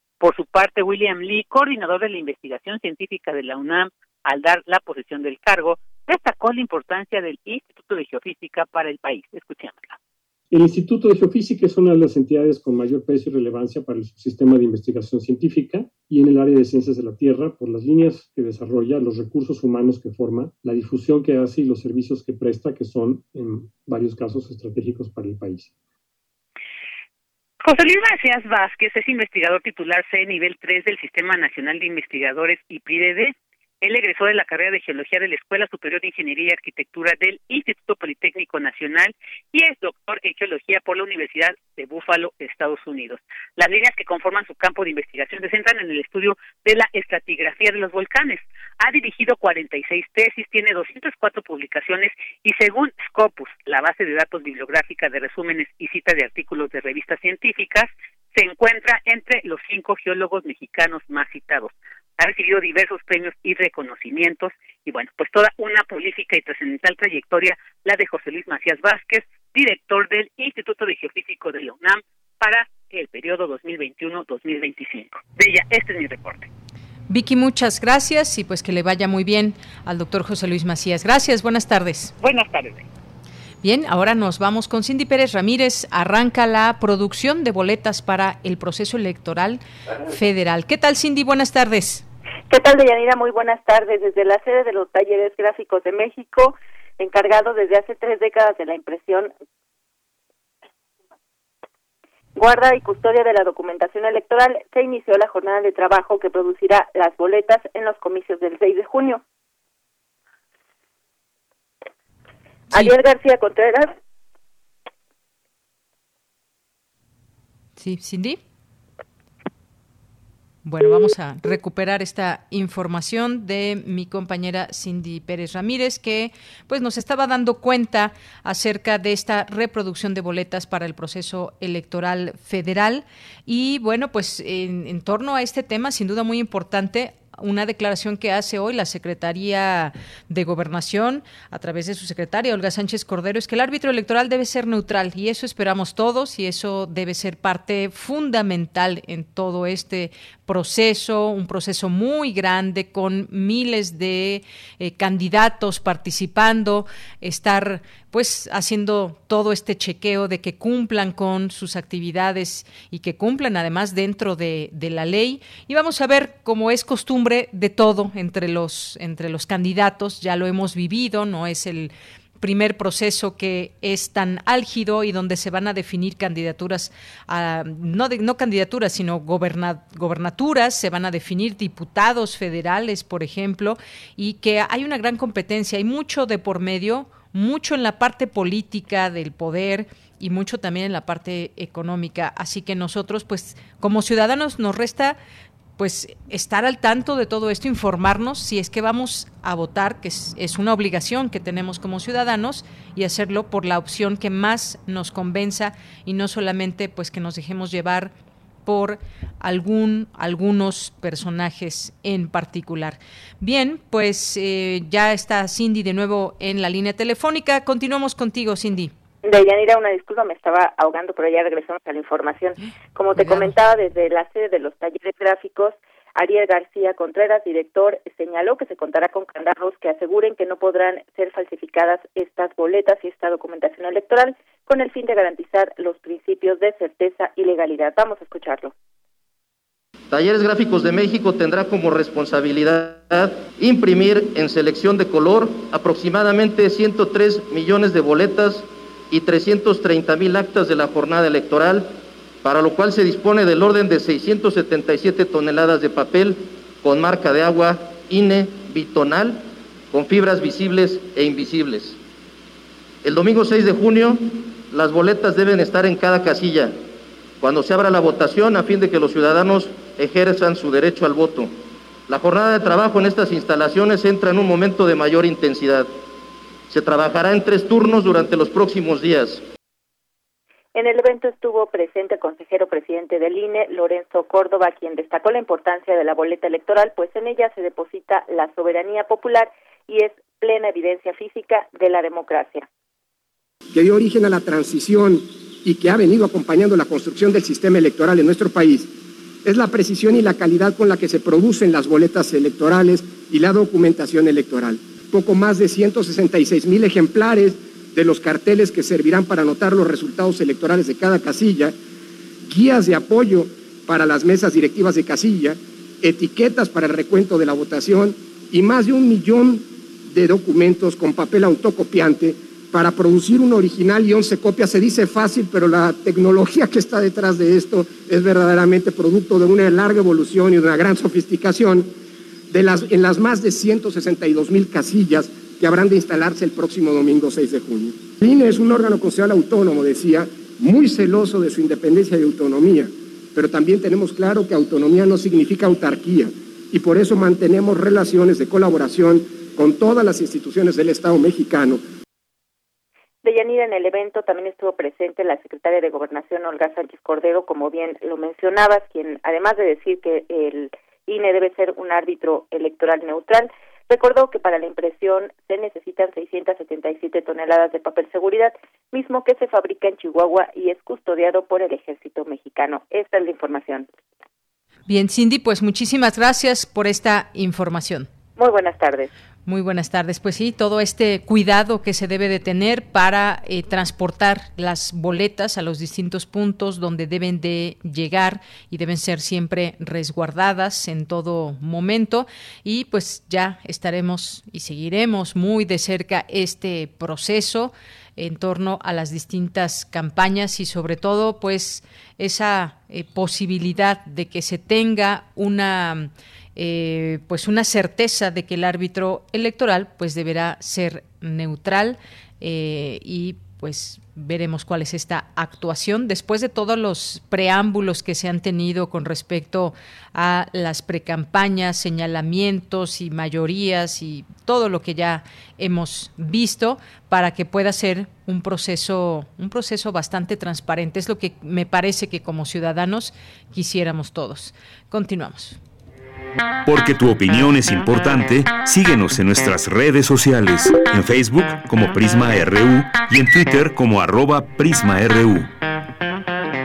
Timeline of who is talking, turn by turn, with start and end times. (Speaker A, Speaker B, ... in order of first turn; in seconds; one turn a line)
Speaker A: 0.2-10.0
Speaker B: 10.5-25.7
Speaker A: 27.6-76.5
Speaker C: 77.1-82.1
Speaker A: 82.2-82.8
Speaker C: 83.6-92.0
Speaker D: 92.5-99.3
Speaker D: 102.3-109.2
Speaker D: 112.7-113.9
Speaker C: 117.8-118.4
Speaker C: 120.6-195.2
Speaker C: 195.8-208.1
Speaker C: 208.7-218.9
Speaker D: 219.2-238.7
Speaker C: 223.2-223.5
Speaker E: 240.1-262.0
Speaker E: 263.0-266.8
Speaker E: 267.4-271.6
Speaker E: 272.1-275.9
Speaker E: 276.7-279.4
Speaker D: 280.7-292.7
Speaker F: 293.7-298.9
Speaker F: 299.4-311.8
Speaker F: 312.5-331.9
Speaker F: 332.5-351.8
Speaker D: 353.2-373.9
Speaker C: 374.9-378.1
Speaker D: 378.4-379.1
Speaker C: 379.4-435.6
Speaker G: 436.6-445.5